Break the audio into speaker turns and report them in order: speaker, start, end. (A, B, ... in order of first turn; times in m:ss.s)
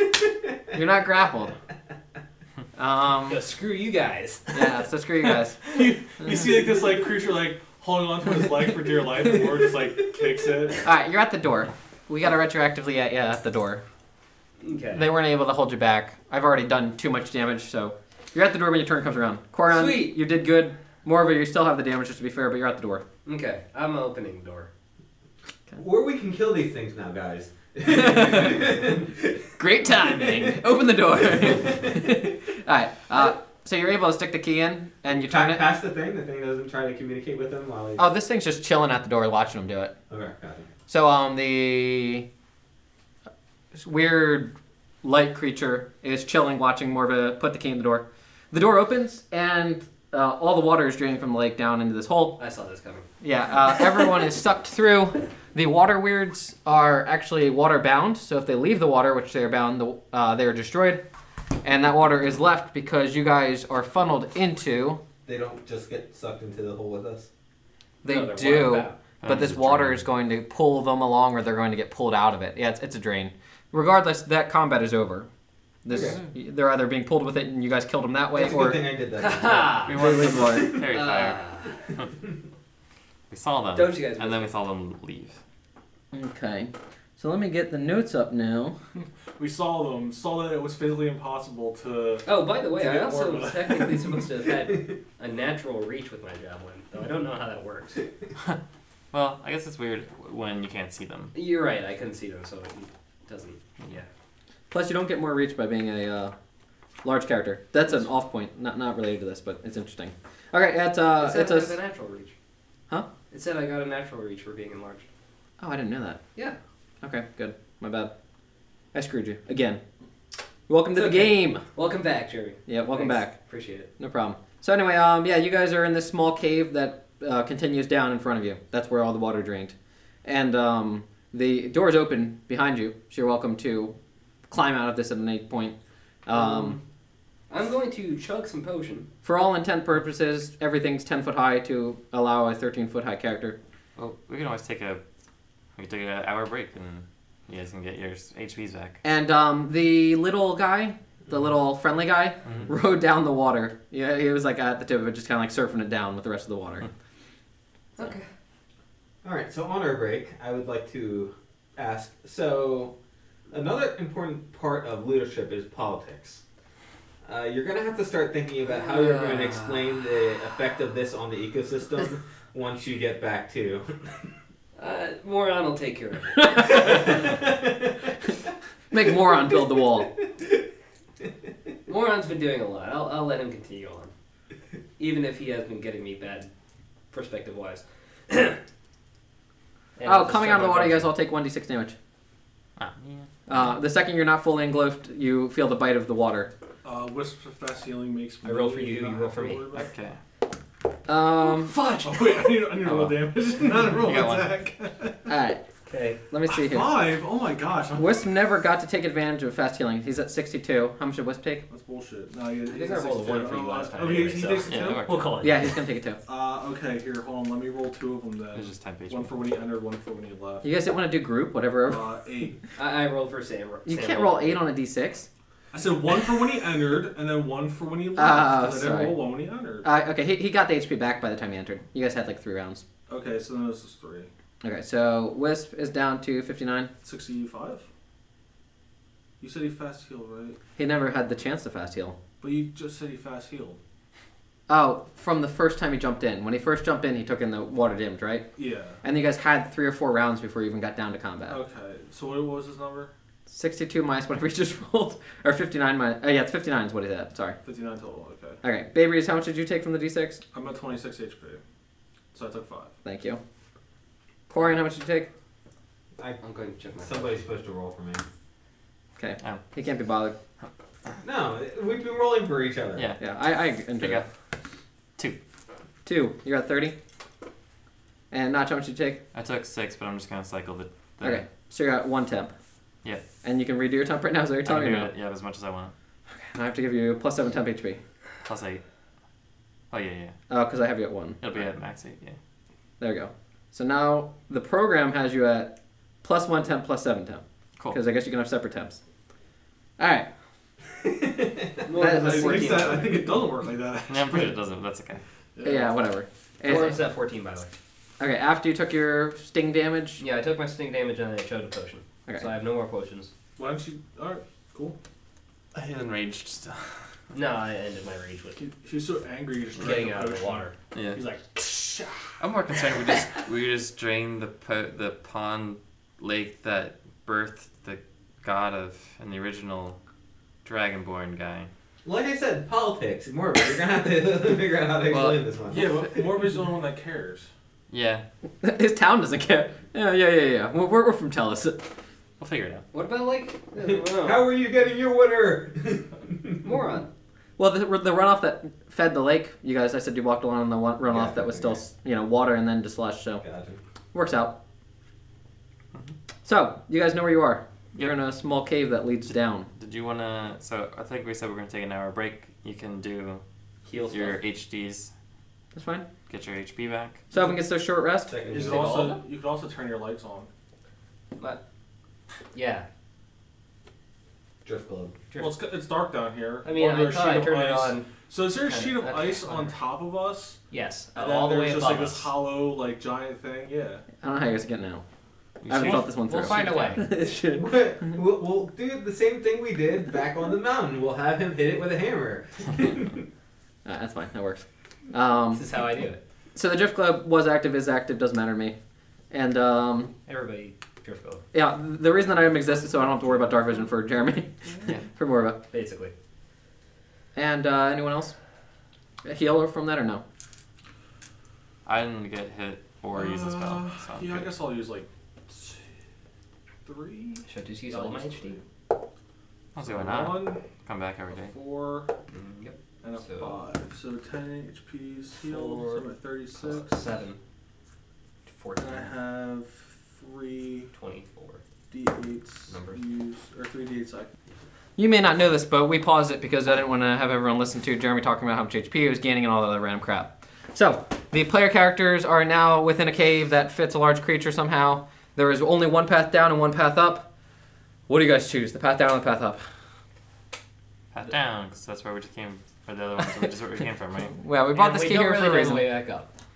0:00.7-0:01.6 A
0:02.8-0:03.4 A
0:03.3-0:04.8 B
0:04.5-0:05.6 A
0:05.6-0:10.8 C
0:10.8-0:13.8 A
0:14.6-0:15.1 B
0:14.9-0:23.0 A
0:19.7-0:20.2 B
0:23.2-0:24.7 B
0:25.8-0:32.4 D
0:27.8-0:28.7 A
0:29.6-0:35.7 A
0:35.1-0:38.1 D
0:38.0-0:39.9 A
0:40.1-0:40.7 D
0:40.9-0:42.3 A
0:43.7-0:52.4 A
0:52.4-0:53.1 B
0:53.2-1:01.0 A
1:01.6-1:05.0 A
1:05.2-1:07.3 D
1:08.0-1:09.0 B
1:08.0-1:15.3 A
1:09.2-1:10.1 E
1:15.8-1:18.8 A
1:15.9-1:16.2 D
1:18.4-1:20.5 D
1:19.2-1:20.1 B
1:19.9-1:21.4 E
1:19.9-1:20.8 A
1:20.8-1:21.8 B
1:23.3-1:25.4 E
1:23.7-1:24.5 B
1:26.1-1:28.8 A
1:29.0-1:34.5 C
1:32.2-1:38.1 B
1:39.1-1:41.4 E
1:41.3-1:44.1 B
1:44.7-1:46.4 A
1:47.0-1:51.8 A
1:51.2-1:52.3 B
1:53.3-1:55.1 B
1:55.6-1:56.2 A
1:57.0-1:58.1 A
1:58.9-1:59.8 A
2:00.7-2:01.6 A
2:00.9-2:03.9 B
2:02.7-2:03.4 A
2:04.0-2:14.0 A
2:14.5-2:16.8 A
2:16.3-2:16.8 B
2:17.5-2:19.1 B
2:19.2-2:23.6 A
2:24.0-2:25.0 E
2:25.8-2:29.0 E
2:29.0-2:36.9 A
2:32.4-2:32.7 E
2:38.0-2:38.3 B
2:39.2-2:43.0 D
2:43.5-2:46.4 D
2:47.2-2:54.3 D
2:48.7-2:49.7 B
2:54.8-2:57.0 B
2:56.4-2:57.0 A
2:56.9-2:57.8 D
2:58.9-3:00.2 A
3:01.9-3:04.1 B
3:05.0-3:06.5 B
3:07.1-3:08.6 B
3:10.0-3:11.1 B
3:10.0-3:11.9 A
3:12.8-3:13.6 E
3:13.5-3:16.5 A
3:16.8-3:19.9 C
3:18.4-3:19.7 B
3:19.7-3:20.2 E
3:21.1-3:21.8 A
3:21.5-3:22.5 B
3:22.0-3:25.3 C
3:22.8-3:24.6 E
3:25.2-3:25.6 A
3:25.9-3:26.2 B
3:26.3-3:27.0 A
3:26.5-3:28.2 C
3:27.9-3:31.6 A
3:31.7-3:35.1 C
3:32.6-3:35.8 B
3:34.6-3:35.5 E
3:35.4-3:36.2 A
3:36.2-3:40.6 C
3:38.5-3:39.4 E
3:40.6-3:42.1 A
3:41.9-3:42.6 C
3:42.8-3:44.6 B
3:43.8-3:45.3 A
3:45.7-3:49.9 C
3:48.2-3:49.2 A
3:49.8-3:52.8 A
3:53.1-3:54.3 C
3:54.6-3:56.9 A
3:57.0-3:57.9 C
3:59.4-4:00.6 C
4:00.8-4:02.2 A
4:02.4-4:03.8 C
4:04.7-4:08.5 A
4:08.6-4:09.0 C
4:09.0-4:11.6 A
4:11.5-4:13.1 C
4:13.5-4:17.6 A
4:17.6-4:18.6 C
4:18.6-4:20.4 A
4:20.5-4:21.6 C
4:22.3-4:22.9 C
4:23.0-4:23.4 A
4:24.5-4:25.3 A
4:26.2-4:26.4 D
4:26.4-4:27.3 B
4:27.0-4:28.2 D
4:29.2-4:30.4 A
4:31.2-4:33.1 D
4:33.0-4:33.2 E
4:33.2-4:34.2 A
4:34.0-4:34.3 E
4:36.0-4:37.0 A
4:38.3-4:39.2 A
4:39.3-4:41.4 E
4:41.2-4:42.5 A
4:43.4-4:45.1 A
4:44.6-4:45.9 E
4:46.3-4:48.0 A
4:48.4-4:48.8 E
4:49.9-4:50.4 E
4:50.5-4:51.4 A
4:51.4-4:52.4 E
4:53.0-4:59.0 A
5:00.0-5:00.3 A
5:01.0-5:03.5 D
5:01.8-5:03.1 B
5:01.9-5:03.0 A
5:02.5-5:04.6 C
5:04.1-5:05.2 E
5:05.6-5:05.9 C
5:05.6-5:07.1 A
5:06.6-5:07.7 B
5:08.2-5:10.2 A
5:10.2-5:13.3 B
5:13.6-5:15.0 C
5:15.7-5:16.9 E
5:17.3-5:18.6 B
5:18.5-5:22.4 C
5:19.8-5:20.8 B
5:20.9-5:21.2 E
5:22.4-5:30.0 E
5:30.6-5:31.7 E
5:32.0-5:36.2 D
5:35.1-5:35.4 A
5:35.7-5:37.5 C
5:37.9-5:38.2 E
5:38.6-5:41.9 A
5:42.4-5:42.9 E
5:42.9-5:44.4 B
5:43.8-5:46.8 D
5:46.6-5:47.1 B
5:47.6-5:53.4 A
5:51.1-5:51.8 D
5:53.4-5:53.8 D
5:54.1-5:54.6 A
5:56.4-5:59.7 A
5:59.8-6:03.4 E
6:03.9-6:04.4 B
6:04.1-6:05.1 E
6:05.7-6:06.1 A
6:06.3-6:07.2 E
6:07.3-6:08.4 A
6:08.3-6:09.2 D
6:08.5-6:10.5 C
6:12.5-6:12.9 B
6:14.6-6:15.2 D
6:15.3-6:15.6 B
6:15.4-6:20.6 C
6:16.6-6:19.8 B
6:20.7-6:22.3 B
6:21.2-6:24.0 C
6:24.2-6:25.0 A
6:25.6-6:27.0 E
6:25.7-6:28.1 A
6:25.8-6:27.0 B
6:27.4-6:33.3 D
6:33.8-6:35.6 A
6:35.5-6:36.2 B
6:36.5-6:38.8 A
6:39.3-6:40.1 A
6:40.3-6:41.4 B
6:41.5-6:45.6 A
6:45.7-6:46.1 B
6:47.4-6:48.4 A
6:49.2-6:50.2 A
6:51.9-6:54.5 E
6:53.1-6:55.8 C
6:56.8-6:58.7 C
6:57.5-6:58.6 B
6:59.8-7:01.5 E
6:59.8-7:00.6 C
7:01.3-7:02.1 C
7:02.3-7:03.6 B
7:03.0-7:07.1 C
7:05.4-7:07.4 B
7:08.5-7:09.1 B
7:08.8-7:10.9 C
7:10.9-7:11.6 B
7:11.9-7:14.3 C
7:12.7-7:13.0 B
7:15.0-7:27.3 A
7:28.1-7:29.6 A
7:31.1-7:34.4 E
7:34.4-7:35.9 A
7:34.7-7:36.3 B